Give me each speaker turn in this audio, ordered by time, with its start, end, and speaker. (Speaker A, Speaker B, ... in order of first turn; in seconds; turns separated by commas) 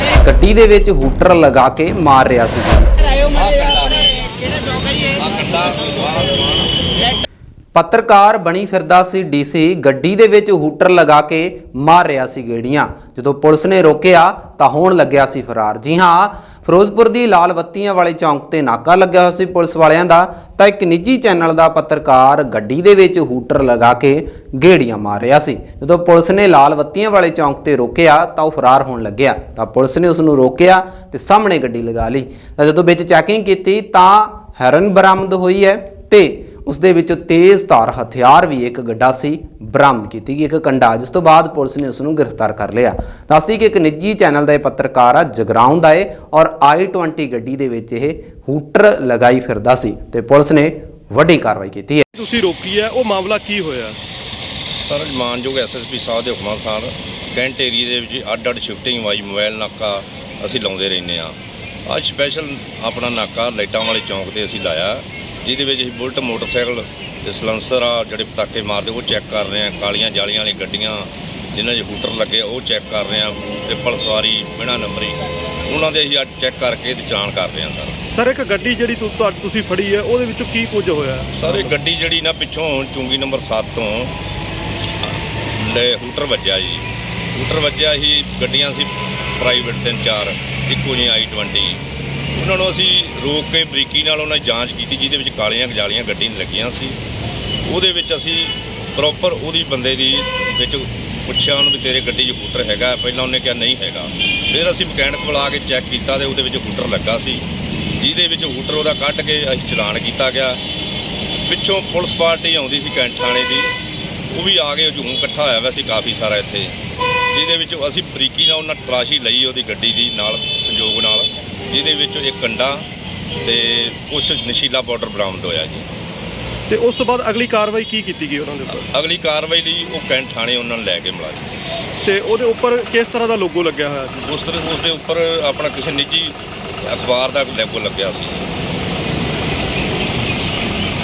Speaker A: 0.1-2.9, Speaker B: 3.3-4.2, Speaker B: 5.1-6.9, Speaker A: 7.7-52.0, Speaker C: 52.1-54.0, Speaker B: 54.8-78.0, Speaker C: 78.1-81.6, Speaker B: 81.3-84.2, Speaker B: 85.0-91.8, Speaker B: 92.3-97.0, Speaker B: 97.7-107.4, Speaker B: 108.0-110.6, Speaker B: 111.5-113.7, Speaker B: 114.3-116.8, Speaker B: 117.3-122.8, Speaker B: 123.4-125.9, Speaker C: 126.7-128.9, Speaker B: 128.7-131.5, Speaker C: 132.0-134.3, Speaker B: 134.2-138.4